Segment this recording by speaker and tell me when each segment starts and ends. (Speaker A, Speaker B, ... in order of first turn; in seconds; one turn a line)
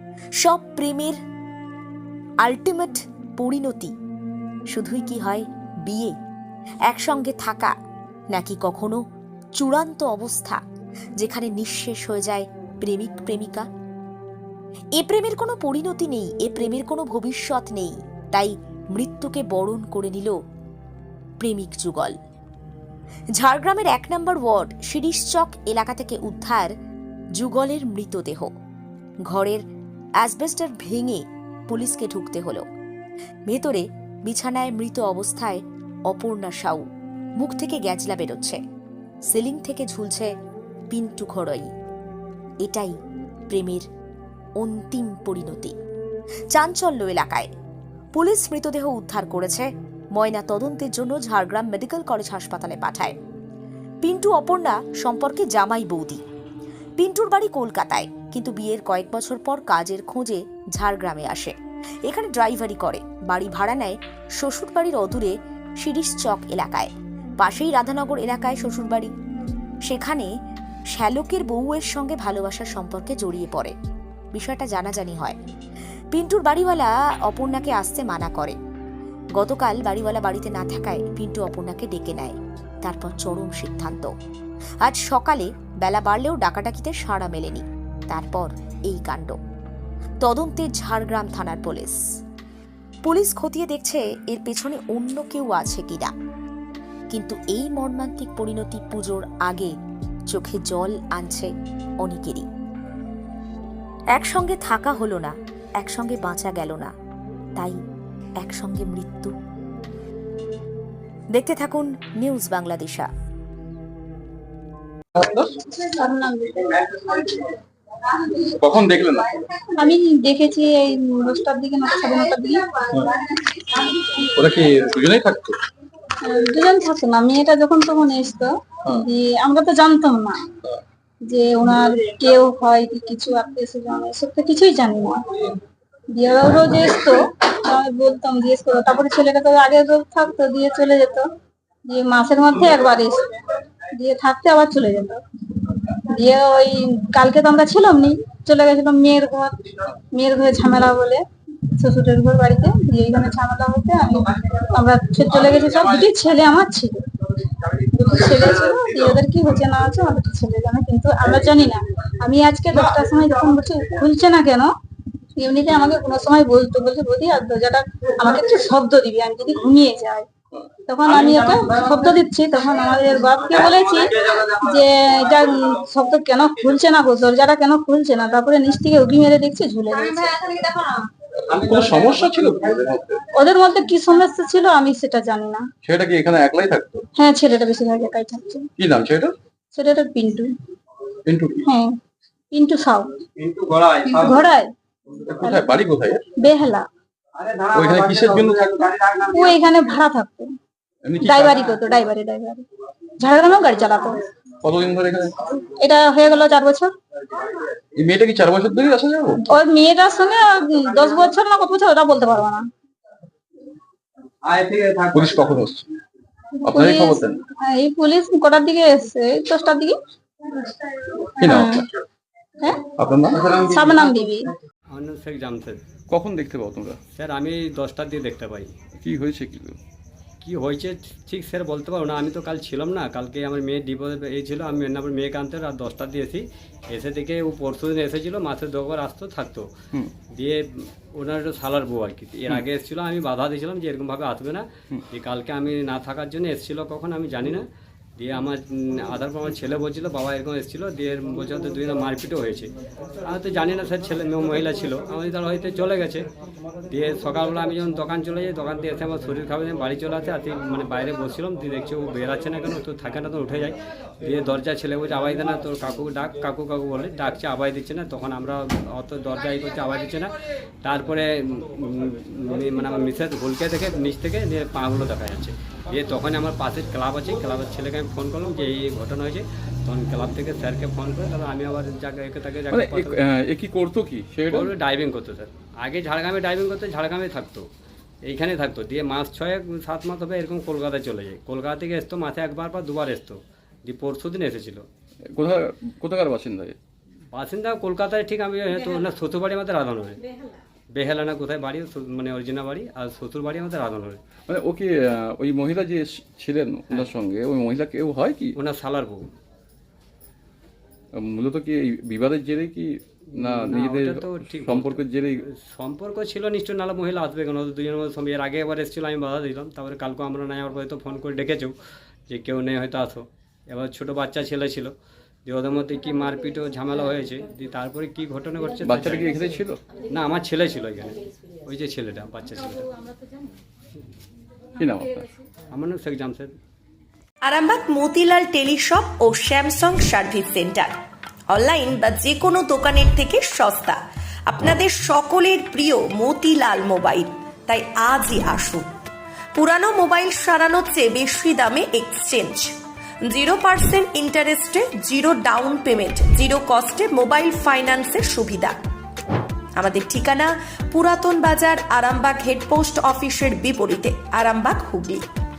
Speaker A: 0.4-1.2
Speaker A: 2.4-3.9
Speaker A: 4.7-6.2
Speaker A: 6.9-7.7
Speaker A: 8.3-9.0
Speaker A: 9.6-10.6
Speaker A: 11.2-13.7
Speaker A: 14.9-20.4
Speaker A: 21.4-22.1
Speaker A: 23.4-26.7
Speaker A: 27.4-28.5
Speaker A: 29.3-29.6
Speaker A: 30.2-32.6
Speaker A: 33.5-36.9
Speaker A: 37.4-38.6
Speaker A: 39.3-40.3
Speaker A: 40.9-41.7
Speaker A: 42.6-43.0
Speaker A: 43.5-43.9
Speaker A: 44.6-45.7
Speaker A: 46.5-47.5
Speaker A: 48.1-53.1
Speaker A: 54.0-56.2
Speaker A: 57.0-61.5
Speaker A: 62.1-69.1
Speaker A: 69.8-70.3
Speaker A: 70.9-73.7
Speaker A: 74.3-75.4
Speaker A: 76.1-78.6
Speaker A: 79.4-84.1
Speaker A: 84.8-89.4
Speaker A: 90.2-92.0
Speaker A: 93.0-96.1
Speaker A: 97.1-99.7
Speaker A: 100.3-102.5
Speaker A: 104.2-106.9
Speaker A: 108.4-109.3
Speaker A: 111.3-113.1
Speaker B: 115.1-115.5
Speaker C: 115.7-117.5
Speaker B: 118.5-119.4
Speaker C: 119.7-123.8
Speaker B: 124.3-125.6
Speaker C: 126.2-130.4
Speaker C: 131.2-135.6
Speaker C: 136.1-141.3
Speaker C: 141.9-145.2
Speaker C: 145.9-149.6
Speaker C: 150.1-151.2
Speaker C: 151.8-157.0
Speaker C: 157.9-164.7
Speaker C: 165.3-170.2
Speaker C: 170.9-180.9
Speaker B: 181.5-183.2
Speaker C: 183.3-185.6
Speaker B: 185.8-187.1
Speaker C: 187.2-188.7
Speaker B: 188.8-189.3
Speaker C: 189.7-190.5
Speaker B: 191.2-191.7
Speaker C: 191.7-191.9
Speaker C: 192.5-193.1
Speaker C: 194.0-194.7
Speaker B: 195.2-196.2
Speaker C: 196.4-196.9
Speaker B: 197.7-198.9
Speaker C: 199.3-200.5
Speaker B: 201.0-201.7
Speaker C: 201.2-202.6
Speaker C: 203.2-204.2
Speaker B: 204.6-205.3
Speaker C: 205.8-206.9
Speaker B: 207.9-209.4
Speaker C: 209.5-212.7
Speaker B: 215.1-215.8
Speaker B: 216.7-217.4
Speaker C: 216.7-219.9
Speaker C: 221.2-221.9
Speaker B: 221.4-221.8
Speaker B: 223.0-223.5
Speaker C: 223.5-224.5
Speaker D: 224.9-225.8
Speaker B: 226.1-227.0
Speaker D: 227.1-228.7
Speaker B: 229.0-229.8
Speaker D: 230.4-239.7
Speaker D: 240.3-247.7
Speaker D: 248.2-252.7
Speaker D: 253.2-256.2
Speaker D: 256.9-283.2
Speaker B: 282.7-284.7
Speaker D: 284.5-287.7
Speaker D: 288.2-294.8
Speaker B: 295.4-296.8
Speaker D: 297.3-304.2
Speaker B: 304.5-308.6
Speaker D: 308.6-309.3
Speaker B: 311.1-315.4
Speaker D: 313.3-315.0
Speaker D: 315.6-321.8
Speaker D: 322.3-324.9
Speaker D: 325.4-329.4
Speaker B: 328.8-329.8
Speaker D: 330.1-333.1
Speaker B: 334.8-335.3
Speaker D: 335.7-336.5
Speaker E: 337.4-340.9
Speaker E: 341.5-348.9
Speaker E: 349.5-352.7
Speaker E: 353.3-358.8
Speaker E: 359.8-365.2